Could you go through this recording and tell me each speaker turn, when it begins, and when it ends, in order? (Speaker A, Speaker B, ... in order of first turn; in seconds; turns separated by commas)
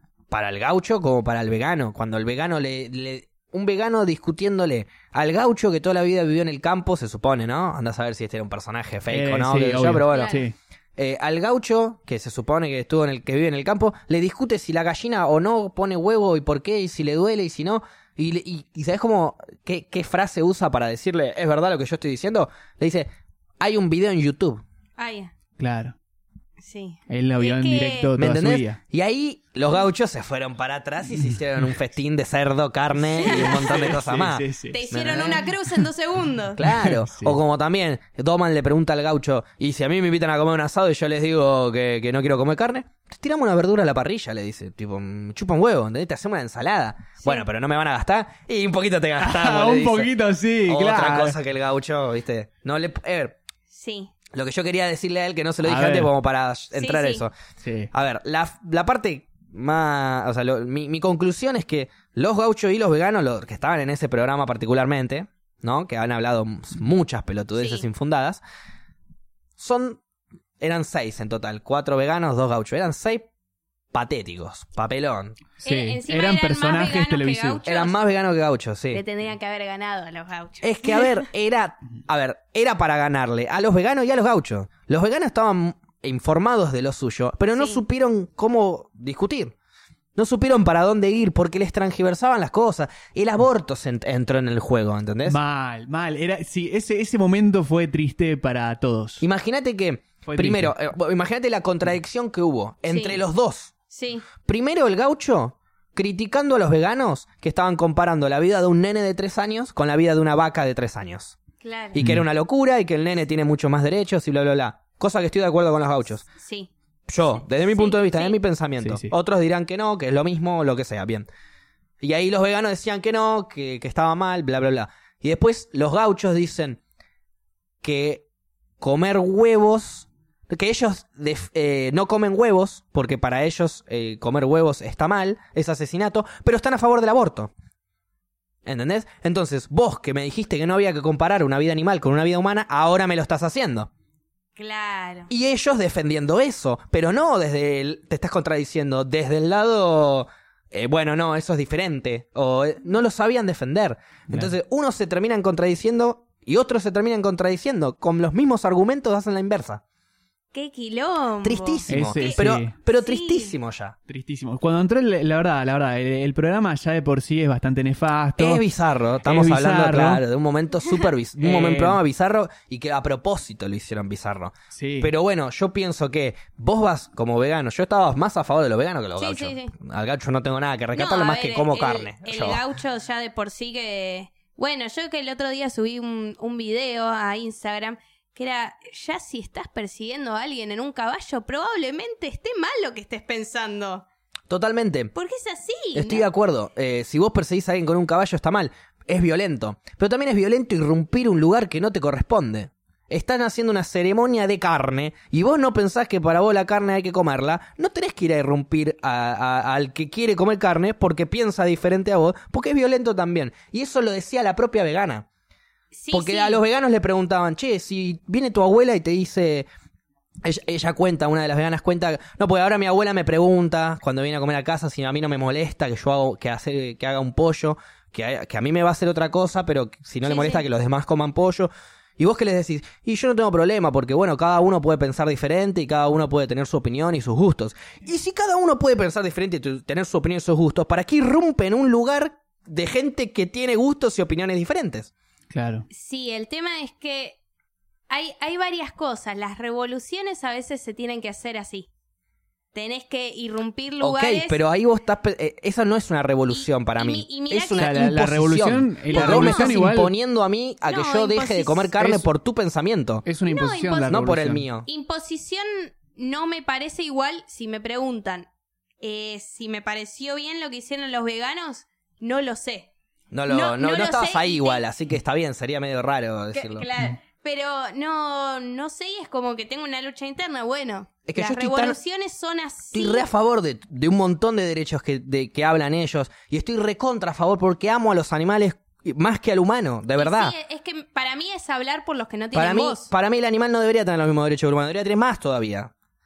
Speaker A: 0.3-10.4, Speaker B: 9.1-10.6, Speaker C: 10.1-10.4, Speaker A: 11.0-23.1, Speaker A: 23.6-24.6, Speaker C: 25.0-25.3, Speaker B: 25.6-25.9, Speaker C: 26.6-28.1, Speaker B: 27.1-28.8, Speaker A: 28.2-35.5, Speaker C: 33.1-33.9, Speaker B: 33.3-34.8, Speaker C: 34.7-36.6, Speaker A: 36.6-50.1, Speaker B: 36.6-37.4, Speaker B: 49.2-51.4, Speaker A: 50.7-53.4, Speaker C: 53.7-54.1, Speaker A: 54.3-57.3, Speaker B: 55.6-56.1, Speaker C: 56.8-57.2, Speaker B: 57.6-57.9, Speaker A: 57.9-68.4, Speaker C: 67.6-67.9, Speaker A: 69.6-70.0, Speaker A: 70.6-73.3, Speaker A: 73.9-75.4, Speaker C: 75.6-78.0, Speaker B: 75.6-77.6, Speaker A: 77.7-79.0, Speaker C: 78.9-81.3, Speaker A: 80.6-89.5, Speaker C: 87.6-87.8, Speaker A: 90.2-95.4, Speaker B: 95.3-99.2, Speaker A: 99.2-103.7, Speaker B: 100.2-100.7, Speaker C: 102.9-103.2, Speaker C: 103.9-104.3, Speaker A: 104.4-111.4, Speaker C: 111.6-112.0, Speaker A: 111.9-116.3, Speaker B: 112.0-112.2, Speaker C: 116.4-116.7, Speaker A: 117.1-121.3, Speaker C: 117.3-118.4, Speaker B: 118.8-119.1, Speaker A: 122.0-126.8, Speaker A: 127.8-128.2, Speaker A: 128.8-137.5, Speaker A: 138.7-143.9, Speaker C: 144.6-145.3, Speaker A: 145.3-159.8, Speaker C: 160.5-163.5, Speaker A: 161.4-163.9, Speaker B: 161.9-162.7, Speaker B: 164.1-168.6, Speaker A: 168.4-182.6, Speaker B: 169.2-170.2, Speaker B: 171.4-172.0, Speaker B: 174.7-175.1, Speaker C: 179.2-179.7, Speaker C: 180.9-194.1, Speaker A: 194.5-195.1, Speaker C: 195.2-196.3, Speaker A: 195.9-215.3, Speaker C: 215.9-216.6, Speaker A: 216.1-219.7, Speaker A: 220.4-245.1, Speaker C: 230.3-230.7, Speaker B: 245.5-245.9, Speaker C: 245.9-247.4, Speaker C: 248.1-251.9, Speaker C: 252.7-254.6, Speaker A: 254.0-263.2, Speaker C: 256.5-257.9, Speaker B: 257.8-260.1, Speaker C: 259.1-259.8, Speaker C: 260.9-261.9, Speaker B: 262.0-262.3, Speaker B: 263.2-264.7, Speaker C: 263.5-264.2, Speaker A: 264.1-264.9, Speaker C: 264.9-268.5, Speaker C: 269.0-272.9, Speaker A: 273.3-276.9, Speaker C: 273.5-274.8, Speaker C: 276.5-283.3, Speaker A: 281.3-282.0, Speaker A: 282.9-290.6, Speaker C: 290.2-293.1, Speaker A: 292.5-295.9